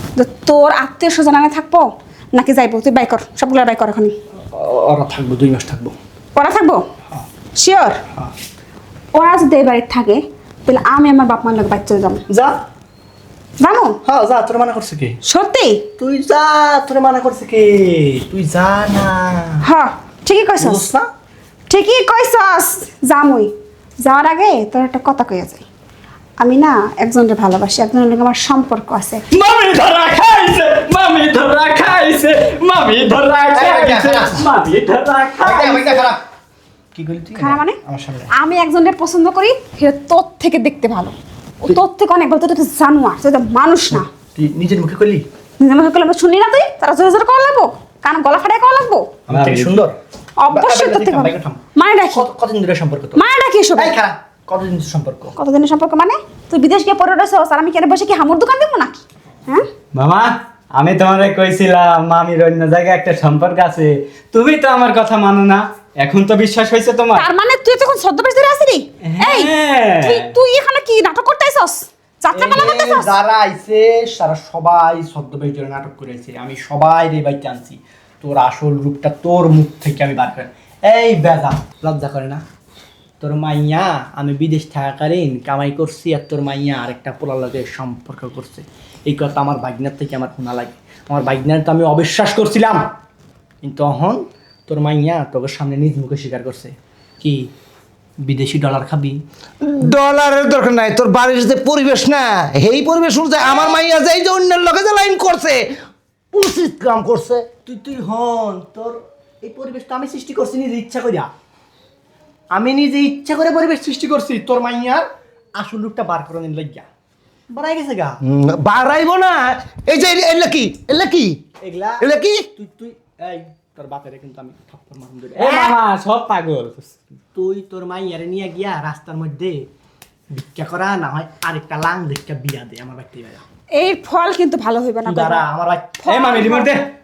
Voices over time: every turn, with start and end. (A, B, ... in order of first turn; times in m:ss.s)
0:00.1-0:04.1 A
0:04.5-0:05.9 B
0:06.3-0:06.8 A
0:07.5-0:08.0 A
0:09.1-0:12.2 A
0:12.3-0:12.6 B
0:13.6-0:14.0 A
0:14.0-0:15.2 B
0:15.2-0:15.8 A
0:16.0-0:19.6 B
0:19.6-0:20.9 A
0:20.6-0:21.1 B
0:21.7-0:23.5 A
0:24.0-0:25.6 A
0:26.4-0:29.2 A
0:29.3-0:35.9 C
0:33.5-0:34.4 B
0:35.4-0:36.2 B
0:36.9-0:38.3 B
0:37.3-0:37.8 A
0:38.4-0:44.0 A
0:44.4-0:45.2 B
0:45.6-0:49.1 A
0:49.3-0:50.0 B
0:49.3-0:49.7 C
0:50.4-0:52.2 A
0:50.5-0:51.6 B
0:52.1-0:53.2 B
0:53.1-0:53.9 A
0:53.8-0:55.3 B
0:55.4-0:59.6 A
0:59.9-1:07.2 C
1:07.1-1:13.1 A
1:09.3-1:10.3 C
1:12.3-1:22.4 B
1:23.2-1:32.9 B
1:33.6-1:37.5 B
1:38.2-1:39.2 B
1:39.6-1:45.7 D
1:46.3-1:47.5 D
1:47.6-1:51.3 B
1:52.5-1:56.9 B
1:57.5-1:58.2 B
1:58.2-2:01.4 D
2:01.6-2:05.6 B
2:02.0-2:02.4 D
2:05.4-2:07.0 C
2:05.5-2:05.7 A
2:07.3-2:09.7 B
2:10.3-2:13.4 B
2:13.7-2:15.4 A
2:15.0-2:16.7 B
2:16.0-2:16.8 A
2:16.0-2:16.8 C